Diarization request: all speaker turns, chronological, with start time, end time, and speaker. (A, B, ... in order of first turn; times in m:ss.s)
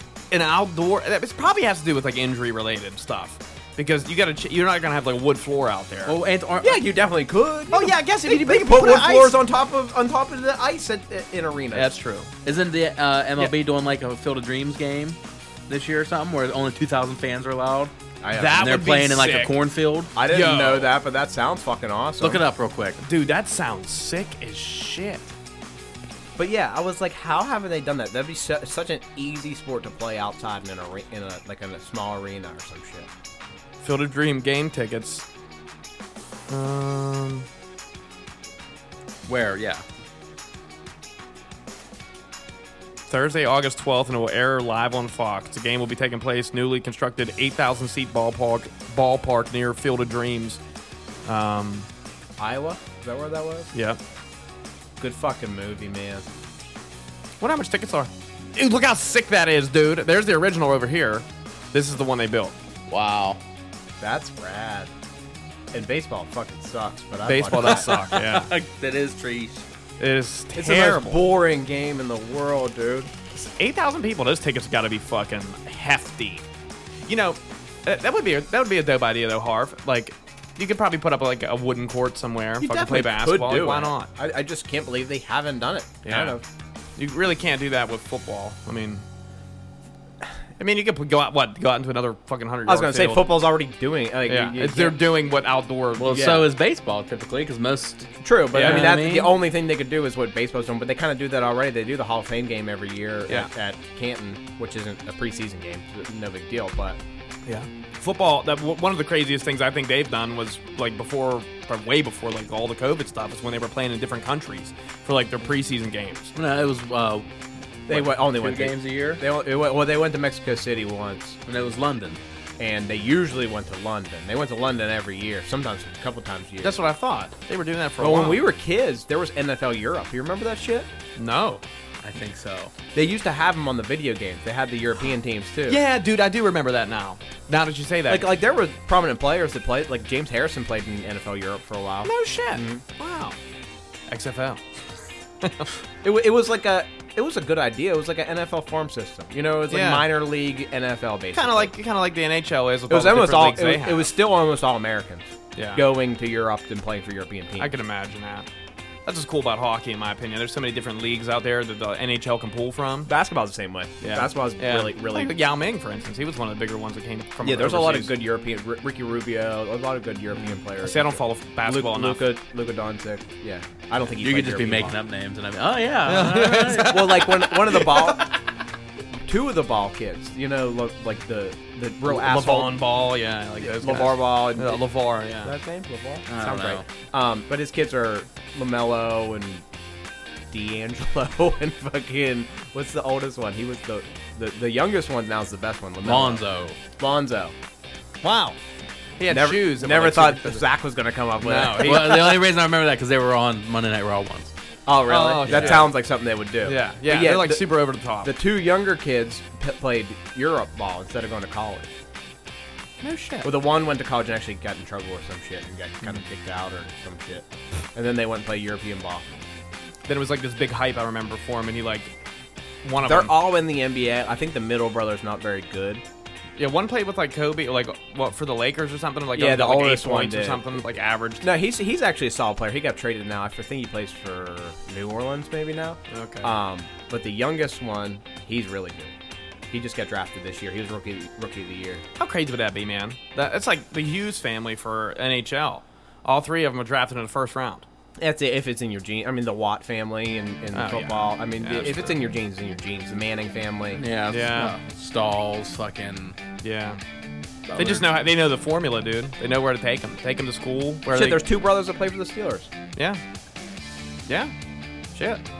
0:00.3-0:06.2 A
0:06.0-0:06.8 B
0:06.6-0:11.9 C
0:07.7-0:09.4 A
0:11.7-0:12.3 A
0:12.4-0:17.9 B
0:18.2-0:18.6 C
0:18.4-0:19.5 A
0:18.5-0:20.1 B
0:20.2-0:22.4 C
0:20.3-0:20.9 A
0:22.2-0:23.0 B
0:23.0-0:25.3 A
0:26.4-0:33.1 C
0:33.8-0:35.2 A
0:36.5-0:37.5 A
0:39.2-0:39.8 B
0:43.1-0:50.6 A
0:51.2-0:51.9 A
0:52.4-0:53.7 C
0:53.7-0:54.0 A
0:55.0-0:56.3 C
0:57.4-1:02.5 A
1:02.9-1:03.4 B
1:04.0-1:04.9 C
1:05.7-1:08.2 C
1:07.2-1:08.5 A
1:07.5-1:09.6 B
1:10.0-1:11.3 A
1:10.6-1:13.1 C
1:13.3-1:16.4 A
1:17.1-1:24.1 A
1:22.6-1:26.4 C
1:26.0-1:26.4 A
1:27.0-1:29.0 A
1:30.6-1:33.5 A
1:32.6-1:35.0 C
1:34.3-1:36.4 A
1:36.0-1:39.4 B
1:36.1-1:36.5 C
1:38.2-1:47.0 C
1:38.5-1:38.9 A
1:47.4-1:56.3 A
1:56.3-1:57.3 B
1:57.9-1:59.2 B
1:57.9-2:01.4 C
2:01.4-2:02.2 B
2:02.6-2:06.8 C
2:06.6-2:08.4 A
2:08.0-2:10.9 C
2:11.2-2:11.6 A
2:12.0-2:12.7 B
2:12.9-2:15.8 C
2:15.7-2:18.3 A
2:18.1-2:22.8 C
2:22.0-2:23.4 A
2:24.1-2:24.6 A
2:25.4-2:25.7 A
2:26.0-2:31.7 C
2:29.7-2:30.1 A
2:31.3-2:34.1 A
2:32.9-2:37.7 C
2:35.6-2:35.8 A
2:37.6-2:38.5 A
2:39.0-2:43.1 A
2:43.1-2:45.3 C
2:44.0-2:48.1 A
2:47.4-2:55.0 C
2:50.8-2:52.3 A
2:54.2-2:58.1 B
2:56.0-2:57.8 A
2:56.9-2:58.3 C
2:59.2-3:02.8 C
3:02.0-3:05.5 A
3:03.6-3:04.8 C
3:05.4-3:09.6 C
3:06.3-3:06.8 B
3:10.5-3:17.5 C
3:16.0-3:16.8 B
3:18.2-3:18.6 A
3:19.2-3:20.7 A
3:19.3-3:22.3 C
3:21.4-3:22.4 A
3:21.8-3:24.5 B
3:24.8-3:31.9 C
3:25.1-3:26.0 A
3:25.4-3:25.9 B
3:26.6-3:28.3 A
3:33.0-3:33.5 A
3:33.4-3:39.4 C
3:40.0-3:42.1 A
3:42.8-3:43.3 A
3:43.0-3:46.0 C
3:46.6-3:51.4 A
3:49.3-3:50.8 C
3:51.4-3:59.1 C
3:56.1-3:56.5 A
3:59.7-4:02.0 C
4:02.2-4:07.8 A
4:08.2-4:14.0 C
4:10.7-4:12.2 A
4:13.9-4:16.4 B
4:14.3-4:14.8 A
4:16.6-4:17.0 A
4:17.7-4:18.1 B
4:17.8-4:21.4 A
4:21.1-4:22.7 C
4:25.1-4:25.4 A